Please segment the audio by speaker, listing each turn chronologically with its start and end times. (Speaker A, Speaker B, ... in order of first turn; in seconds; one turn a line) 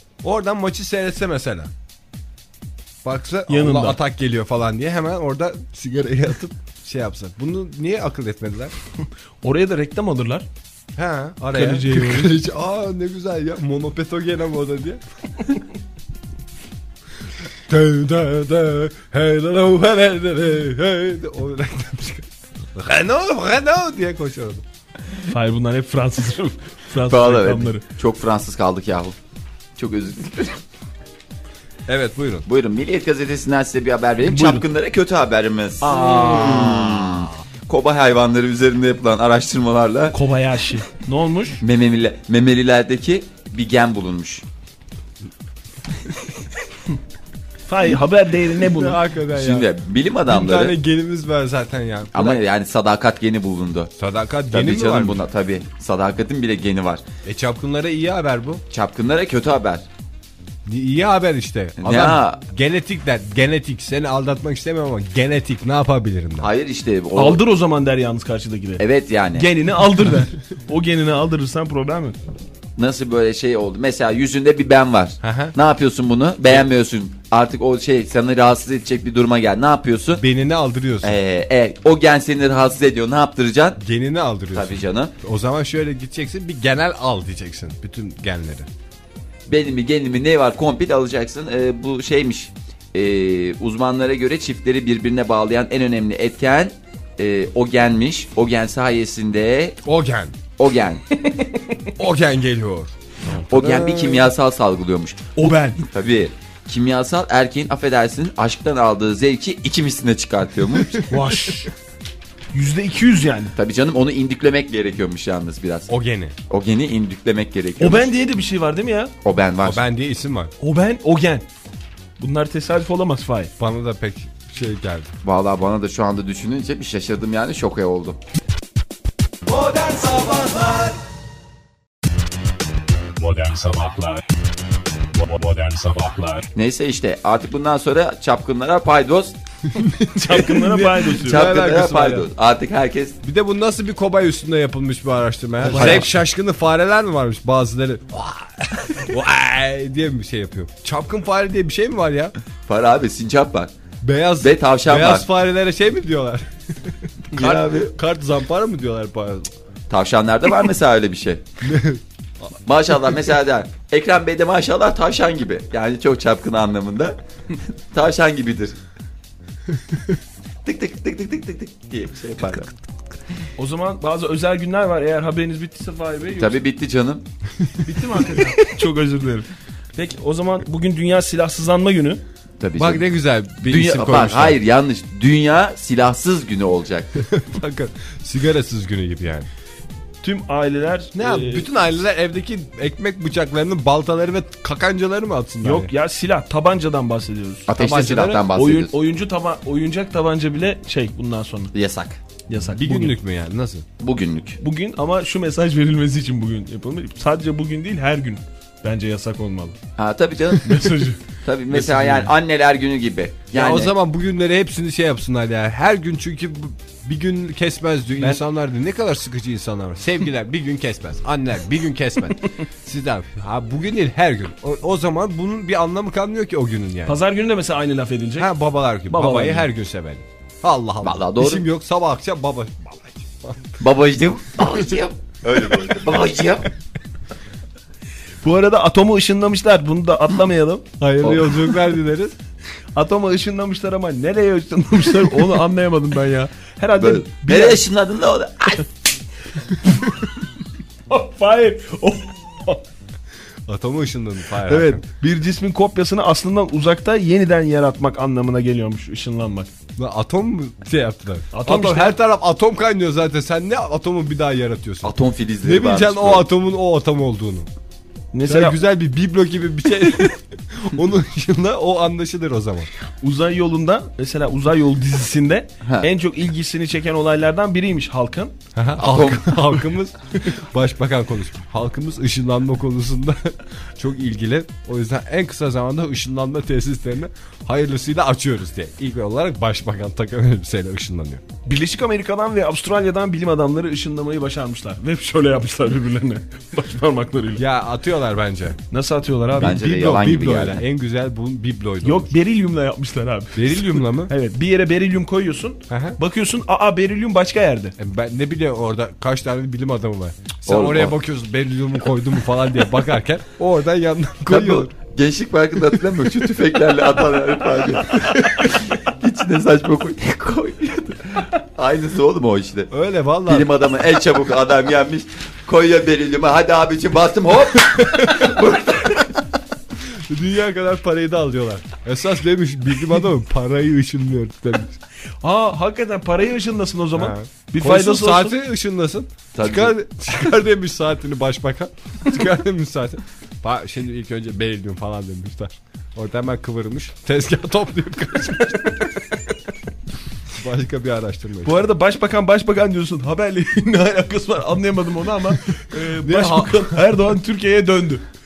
Speaker A: 0.2-1.7
Speaker A: 3.0-8.7
Speaker B: 3.5-4.0
Speaker B: 9.4-10.5
Speaker A: 10.9-15.0
Speaker B: 11.5-12.3
Speaker A: 17.7-24.6
Speaker B: 25.3-27.8
Speaker C: 27.1-29.1
Speaker C: 29.8-30.6
Speaker A: 31.9-32.4
Speaker C: 32.5-40.1
Speaker B: 34.2-34.6
Speaker B: 35.8-36.8
Speaker A: 35.9-37.3
Speaker B: 40.1-41.6
Speaker C: 41.6-44.4
Speaker B: 47.7-49.0
Speaker A: 48.6-49.7
Speaker C: 49.3-50.8
Speaker A: 50.3-52.4
Speaker C: 52.1-53.9
Speaker A: 54.0-55.2
Speaker C: 54.5-57.0
Speaker A: 57.2-58.6
Speaker C: 58.7-59.8
Speaker A: 60.6-66.5
Speaker C: 61.8-62.4
Speaker C: 66.4-67.4
Speaker B: 67.1-72.2
Speaker C: 68.8-69.5
Speaker C: 72.8-80.2
Speaker A: 75.2-75.5
Speaker A: 80.2-81.2
Speaker C: 81.0-83.8
Speaker A: 83.8-88.7
Speaker C: 84.5-85.1
Speaker C: 89.5-99.8
Speaker A: 99.8-100.4
Speaker C: 100.6-101.0
Speaker B: 101.2-101.8
Speaker A: 102.0-104.3
Speaker C: 103.5-105.3
Speaker B: 105.3-105.8
Speaker C: 105.9-111.0
Speaker A: 110.9-111.7
Speaker B: 111.1-111.7
Speaker B: 112.5-113.5
Speaker C: 113.5-115.9
Speaker A: 115.9-116.3
Speaker C: 116.5-118.1
Speaker B: 117.8-119.1
Speaker C: 119.2-119.8
Speaker A: 119.6-120.5
Speaker B: 120.6-121.5
Speaker B: 122.2-123.5
Speaker A: 123.6-125.1
Speaker C: 125.2-128.2
Speaker D: 133.2-136.5
Speaker C: 136.5-139.3
Speaker A: 139.7-142.3
Speaker B: 140.1-141.5
Speaker C: 141.1-143.2
Speaker A: 143.2-152.3
Speaker B: 145.6-146.1
Speaker C: 145.7-146.1
Speaker C: 152.7-153.7
Speaker A: 154.0-159.5
Speaker C: 154.4-155.2
Speaker C: 157.3-157.9
Speaker C: 159.9-161.4
Speaker A: 161.6-162.0
Speaker C: 162.7-167.2
Speaker C: 167.9-168.8
Speaker C: 170.6-172.7
Speaker B: 173.6-176.6
Speaker C: 176.4-177.2
Speaker B: 177.8-182.2
Speaker C: 182.6-183.0
Speaker A: 182.8-184.6
Speaker C: 183.6-187.2
Speaker A: 187.2-189.5
Speaker B: 190.2-191.7
Speaker A: 191.1-195.9
Speaker B: 195.6-197.7
Speaker C: 197.7-198.9
Speaker A: 197.7-198.5
Speaker B: 198.5-201.7
Speaker C: 201.7-202.2
Speaker B: 202.5-203.2
Speaker A: 202.7-203.8
Speaker C: 204.0-204.6
Speaker B: 204.6-209.8
Speaker C: 210.0-213.9
Speaker B: 210.6-212.3
Speaker A: 213.5-227.2
Speaker B: 227.1-228.5
Speaker A: 228.4-233.8
Speaker B: 229.1-229.7
Speaker C: 231.0-231.6
Speaker C: 233.8-236.7
Speaker B: 238.4-240.8
Speaker A: 241.0-242.3
Speaker B: 242.9-247.8
Speaker C: 247.0-248.9
Speaker B: 249.8-250.1
Speaker B: 251.1-252.8
Speaker A: 253.7-255.0
Speaker B: 254.7-259.7
Speaker A: 260.0-267.7
Speaker B: 261.5-262.2
Speaker C: 265.0-266.4
Speaker B: 268.3-268.8
Speaker A: 268.4-272.9
Speaker B: 273.2-278.5
Speaker A: 278.7-291.4
Speaker C: 279.0-279.8
Speaker B: 291.6-297.6
Speaker A: 297.6-298.8
Speaker B: 298.9-299.8
Speaker A: 299.5-302.3
Speaker C: 299.6-300.8
Speaker B: 302.0-307.9
Speaker A: 303.5-304.3
Speaker A: 305.9-306.2
Speaker A: 308.0-314.9
Speaker C: 310.7-311.1
Speaker C: 314.5-322.9
Speaker A: 322.9-323.7
Speaker C: 323.5-329.4
Speaker A: 327.9-328.5
Speaker A: 330.0-335.0
Speaker B: 335.4-338.6
Speaker A: 337.1-349.5
Speaker C: 339.5-339.9
Speaker A: 350.5-351.8
Speaker B: 351.6-358.2
Speaker A: 356.1-357.0